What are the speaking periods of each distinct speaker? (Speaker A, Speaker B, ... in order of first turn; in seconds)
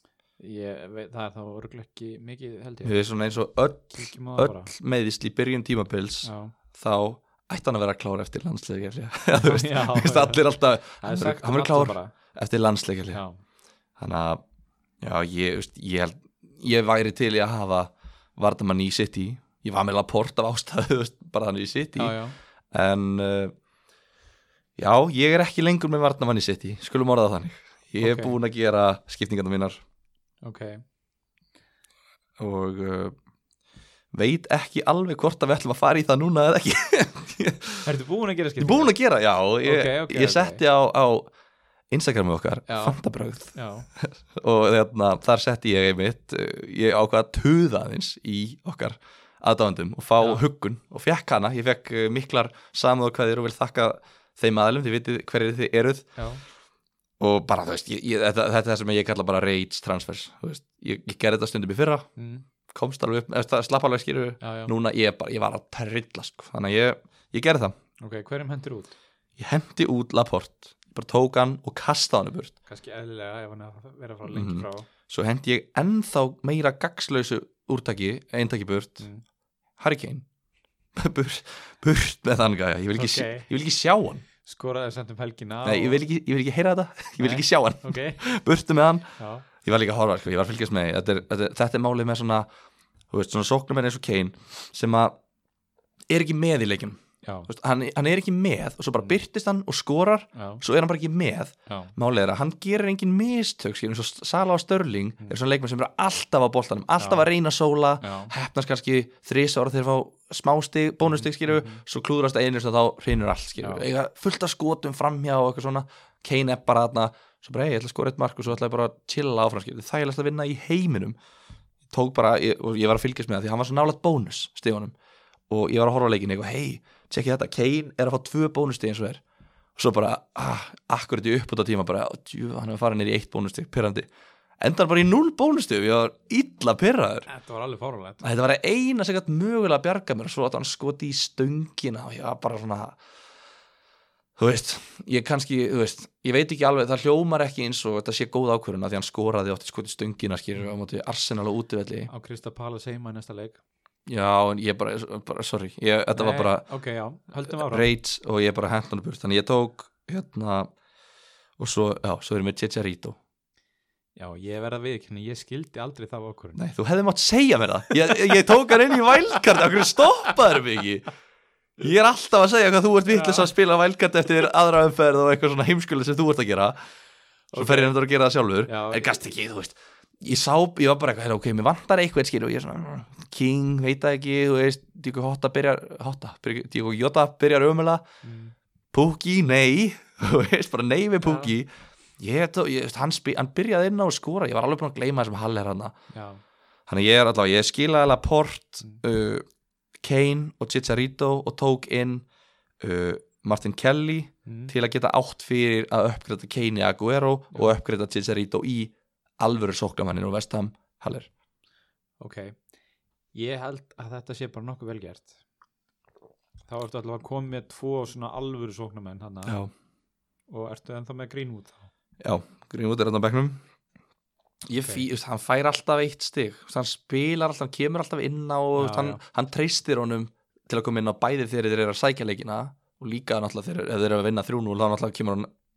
Speaker A: 0.4-3.0, 3.9-4.7, 6.2-6.5, 9.4-10.4, 11.0-12.1, 13.1-13.4, 21.9-22.3, 28.0-28.4, 30.4-30.8, 37.8-38.9, 39.6-40.6, 42.7-43.0, 43.5-43.9, 50.2-50.4, 56.1-56.4, 62.2-62.4, 64.4-64.7, 68.0-68.9, 72.7-74.9, 82.9-83.5, 84.4-86.0, 87.2-88.2, 89.2-89.5, 97.2-97.5, 100.3-100.6, 101.7-101.9, 107.0-107.2, 108.0-108.3, 111.1-111.8, 137.3-138.2, 152.1-153.6, 156.1-157.9, 164.2-166.6, 173.1-173.5, 177.5-177.9, 178.7-179.2, 188.2-188.5, 191.2-191.5, 196.1-196.4, 204.4-204.7, 212.2-212.5, 213.3-215.4, 216.7-219.6, 220.5-221.9, 228.8-229.2
Speaker B: 2.8-13.2, 14.0-14.4, 15.0-22.2, 22.7-23.5, 24.8-29.8, 32.4-33.1, 34.1-37.9, 38.6-41.3, 41.9-56.1, 57.2-62.1, 62.7-67.7, 69.4-72.5, 74.3-79.0, 79.8-80.2, 81.0-84.2, 85.6-89.1, 89.6-92.5, 93.1-95.1, 96.1-121.2, 121.9-124.9, 125.5-129.2, 129.8-134.1, 134.6-137.3, 138.2-143.0, 144.4-152.1, 154.1-156.6, 157.5-160.7, 161.6-163.2, 166.6-171.1, 171.8-176.8, 177.5-188.0, 188.9-195.9, 196.9-199.4, 200.0-202.2, 202.8-211.3, 219.4-219.7, 222.2-223.6, 224.7-235.5